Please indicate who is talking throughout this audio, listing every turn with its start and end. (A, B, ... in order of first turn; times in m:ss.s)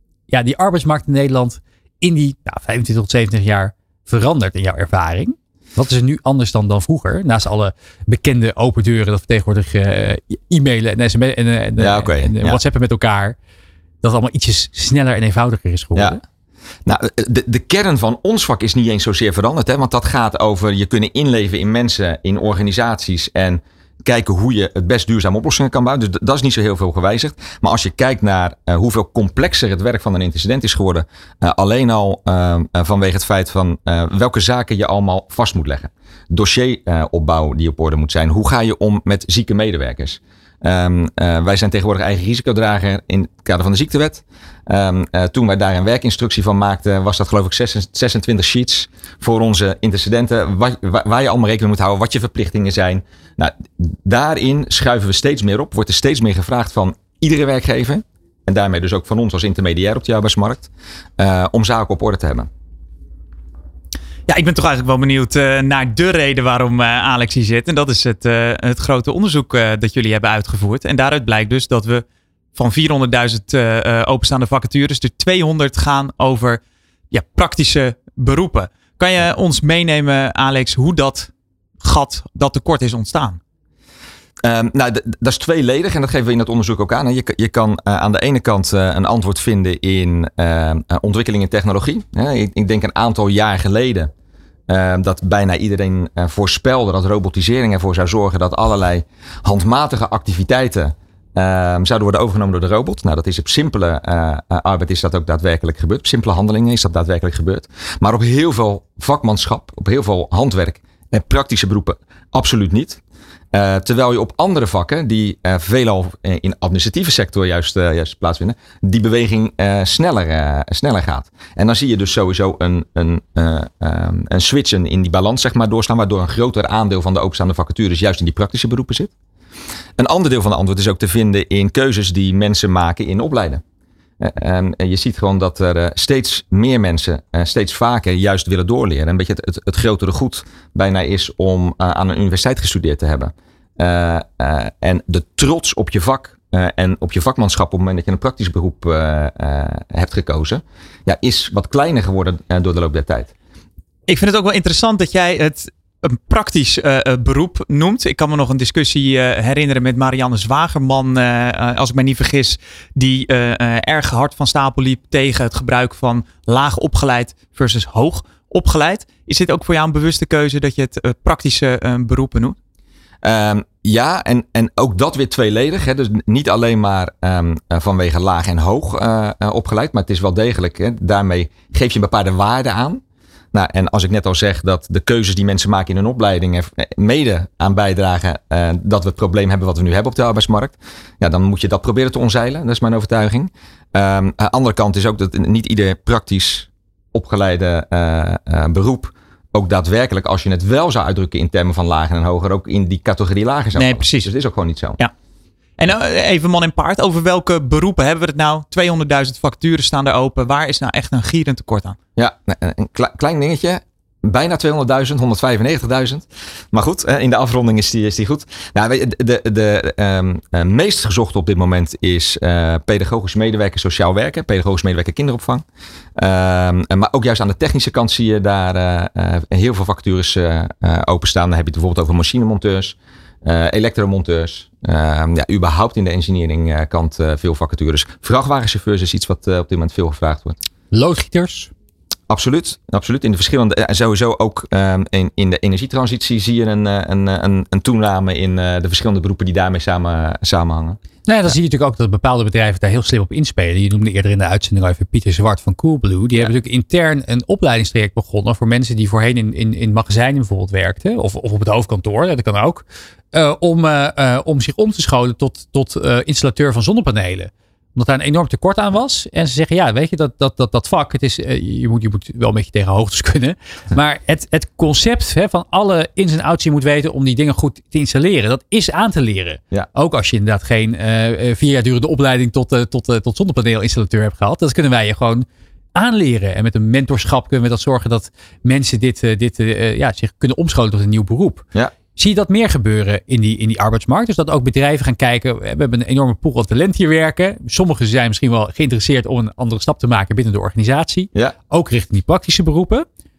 0:00.3-0:13.4 A
0:11.8-0:12.6 B
0:14.0-0:16.2 A
0:16.9-1:02.5 B
1:04.3-1:12.0 C
1:12.6-1:16.6 C
1:17.1-1:21.3 C
1:21.8-1:23.4 C
1:24.4-1:34.1 B
1:34.7-1:53.0 B
1:53.5-2:09.1 B
2:10.0-2:13.6 B
2:14.2-2:33.3 B
2:34.1-2:52.6 C
2:53.2-3:03.0 B
3:03.5-3:25.0 B
3:23.8-3:24.3 C
3:25.8-3:32.0 C
3:32.2-3:45.6 B
3:46.2-4:00.6 B
4:00.9-4:01.7 A
4:02.3-4:11.5 B
4:11.3-4:51.6 A
4:52.2-5:03.1 A